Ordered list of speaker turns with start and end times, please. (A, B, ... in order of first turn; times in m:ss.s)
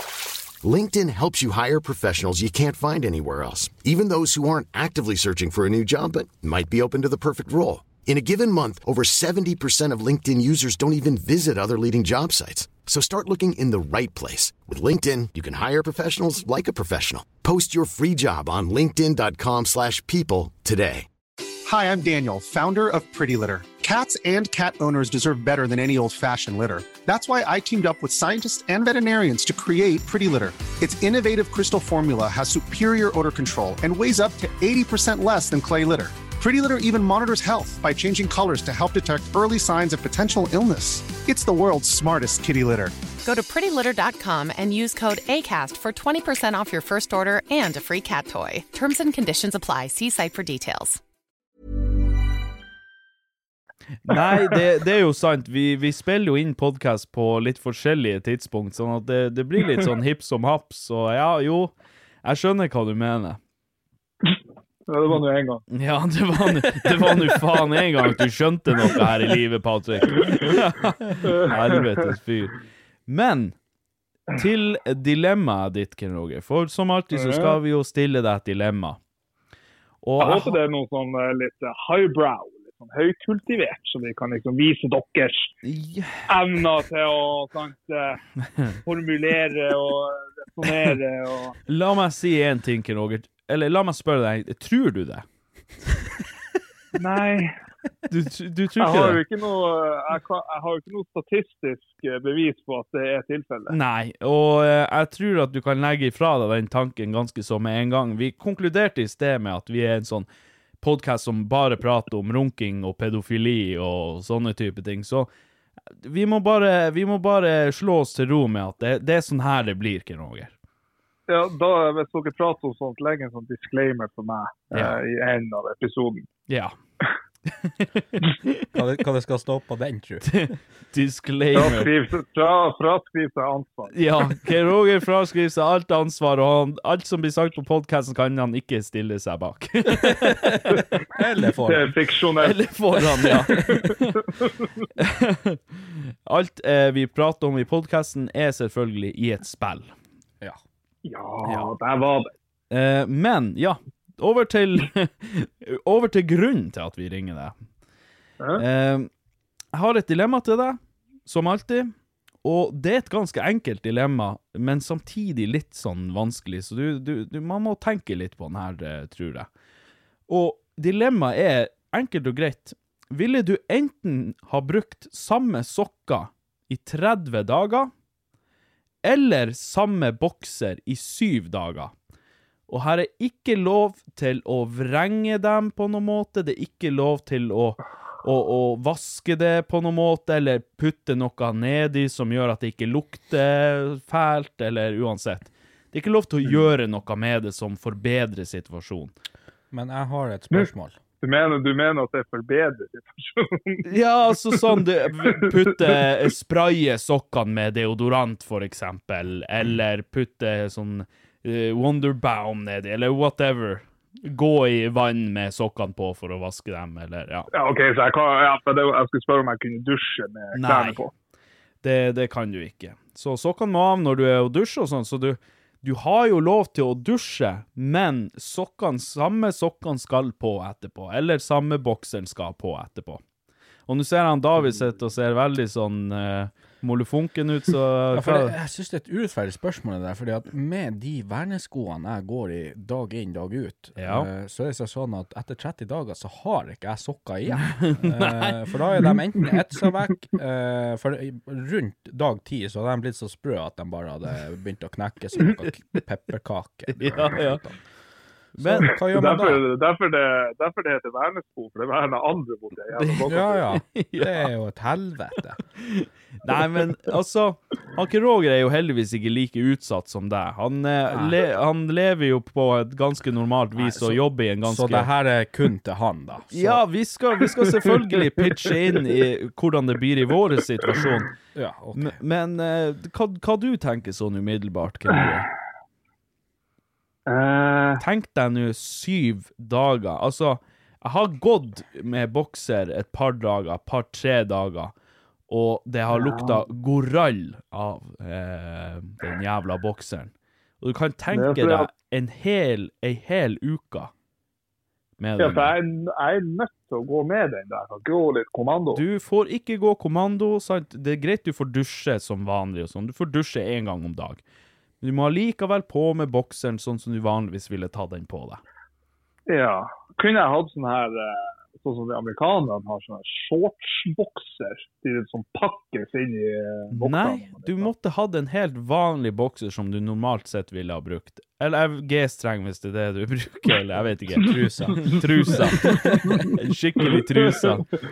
0:00.6-0:21.1 A
0:21.6-0:43.0 B
0:43.2-0:51.0 C
0:54.0-1:01.7 D
1:02.2-1:03.4 D
1:04.9-1:05.6 E
1:05.7-1:13.6 D
1:11.2-1:12.0 E
1:14.3-1:19.0 D
1:17.1-1:17.6 E
1:20.0-1:20.6 D
1:20.2-1:25.5 E
1:25.6-1:26.2 D
1:26.3-1:28.2 E
1:28.8-1:31.6 E
1:31.7-1:35.2 D
1:37.0-1:37.6 E
1:38.1-1:39.2 D
1:38.8-1:43.8 E
1:43.7-1:50.3 D
1:50.8-1:55.3 D
1:56.0-2:00.5 D
2:01.3-2:06.3 E
2:04.7-2:05.0 D
2:06.5-2:06.8 D
2:07.5-2:08.6 D
2:08.7-2:10.5 F
2:10.2-2:11.9 D
2:11.5-2:14.0 E
2:13.9-2:20.8 D
2:20.0-2:21.9 F
2:21.6-2:24.5 E
2:22.4-2:24.2 D
2:25.0-2:29.9 D
2:31.0-2:32.3 E
2:32.7-2:37.6 D
2:38.6-2:39.1 D
2:39.7-2:41.9 D
2:42.4-2:49.5 D
2:50.3-2:57.9 D
2:59.0-3:01.9 D
3:02.7-3:19.1 D
3:19.7-3:21.0 F
3:21.2-3:23.9 E
3:23.9-3:37.5 D
3:25.3-3:26.0 E
3:37.5-3:41.1 E
3:40.5-3:41.0 D
3:41.8-3:53.2 D
3:53.9-3:58.5 D
3:58.1-4:17.8 F
4:04.0-4:04.3 D
4:07.6-4:08.7 D
4:16.9-4:17.6 D
4:18.6-4:19.0 D
4:18.6-4:19.6 F
4:18.8-4:23.7 E
4:23.0-4:24.5 D
4:23.3-4:25.6 F
4:25.8-4:35.1 D
4:31.1-4:31.4 F
4:33.8-4:36.8 F
4:36.5-4:41.3 D
4:41.6-4:42.2 F
4:41.9-4:45.5 D
4:47.3-4:48.0 E
4:48.0-4:54.9 D
4:55.5-5:04.1 D
4:56.1-4:56.6 E
5:01.3-5:01.9 E
5:05.2-5:05.8 D
5:05.4-5:09.0 E
5:08.9-5:14.4 D
5:15.0-5:18.6 D
5:19.5-5:27.9 E
5:26.9-5:37.9 D
5:34.3-5:35.1 F
5:35.0-5:37.8 E
5:36.1-5:36.4 F